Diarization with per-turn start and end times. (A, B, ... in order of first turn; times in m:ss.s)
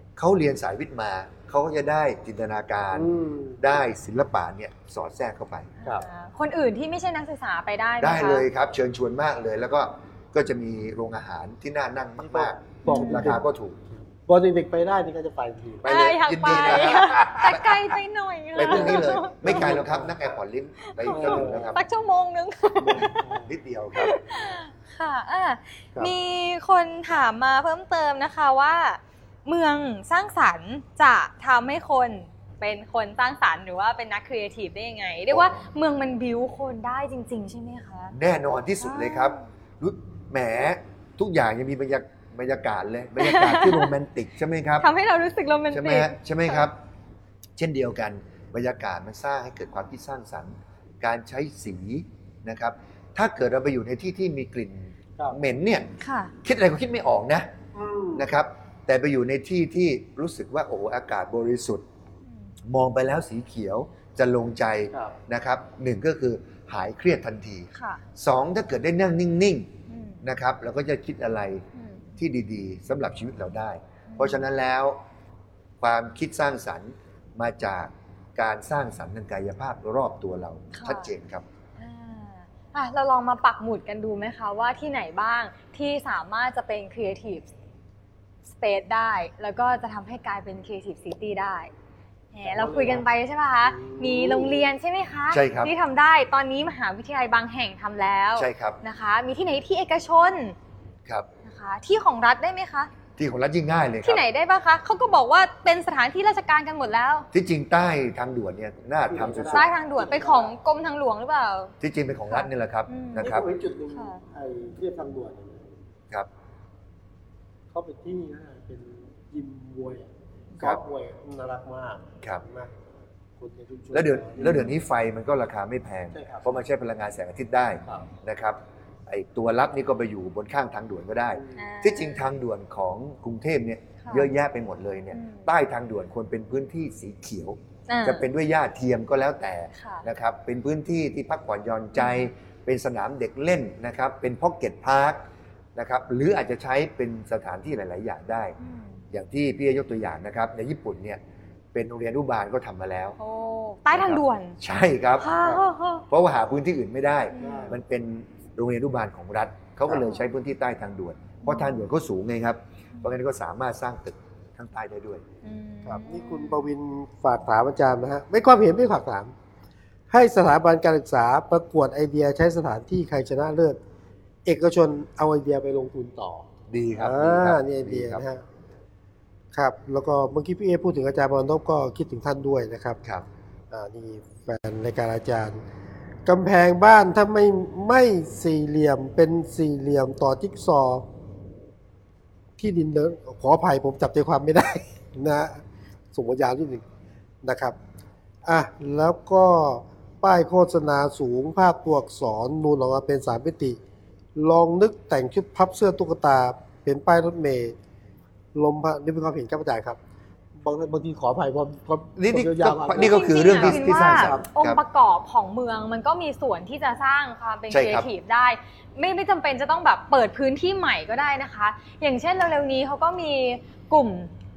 0:00.2-0:05.7 A
0:02.9-0:03.6 B
0:05.8-0:08.4 C
0:08.0-0:13.8 A
0:12.2-0:13.4 B
0:12.8-0:13.3 C
0:14.0-0:15.8 B
0:15.8-0:17.9 A
0:15.8-0:19.7 C
0:17.0-0:17.4 B
0:18.5-0:21.8 A
0:18.6-0:20.2 B
0:20.8-0:23.3 C
0:21.1-0:21.7 B
0:22.8-0:24.2 A
0:23.1-0:23.5 B
0:23.9-0:38.1 C
0:35.3-0:35.6 A
0:38.1-0:44.9 A
0:38.8-0:39.4 C
0:43.2-0:43.9 C
0:44.8-0:46.7 C
0:45.7-0:46.8 A
0:47.6-0:55.9 A
0:56.0-0:56.3 C
0:56.4-0:57.5 A
0:57.7-0:58.2 B
0:58.1-1:01.8 A
1:02.6-1:09.7 A
1:07.7-1:08.0 C
1:09.9-1:10.2 C
1:10.2-1:11.6 A
1:11.7-1:12.2 C
1:12.2-1:15.0 A
1:14.1-1:14.5 C
1:15.8-1:21.4 A
1:20.7-1:21.1 C
1:21.8-1:27.5 C
1:28.4-1:31.7 C
1:32.3-1:40.6 C
1:32.4-1:33.0 B
1:33.6-1:34.7 B
1:35.3-1:35.7 A
1:38.4-1:38.8 A
1:41.4-1:42.9 C
1:43.2-1:44.2 A
1:44.0-1:47.3 C
1:47.3-1:49.7 A
1:49.1-1:50.5 B
1:49.5-1:51.8 C
1:51.8-1:53.5 A
1:52.3-1:53.3 C
1:53.2-1:55.6 B
1:53.9-1:54.2 C
1:57.7-2:02.7 B
2:03.4-2:04.6 B
2:03.9-2:25.2 A
2:04.4-2:04.7 C
2:06.1-2:06.5 B
2:11.3-2:11.6 B
2:11.6-2:12.2 C
2:14.0-2:14.3 C
2:15.1-2:15.5 C
2:17.9-2:18.2 C
2:19.8-2:20.0 C
2:21.9-2:22.3 C
2:25.8-2:28.6 A
2:28.6-2:29.0 C
2:29.1-2:31.2 A
2:31.7-2:33.2 A
2:33.2-2:34.6 C
2:33.9-2:35.3 A
2:35.2-2:36.0 C
2:36.1-2:45.2 A
2:37.3-2:37.8 C
2:37.4-2:37.8 B
2:41.4-2:41.8 C
2:45.4-2:46.7 C
2:45.8-2:49.3 B
2:50.1-2:53.8 B
2:54.4-2:58.4 B
2:56.7-2:58.2 A
2:59.5-3:03.0 B
3:03.7-3:05.6 B
3:06.2-3:11.0 B
3:12.6-3:16.8 B
3:17.4-3:17.8 B
3:18.4-3:23.8 B
3:24.4-3:27.8 B
3:28.5-3:30.0 B
3:30.6-3:34.4 B
3:32.2-3:34.8 A
3:33.0-3:44.3 C
3:37.7-3:38.1 A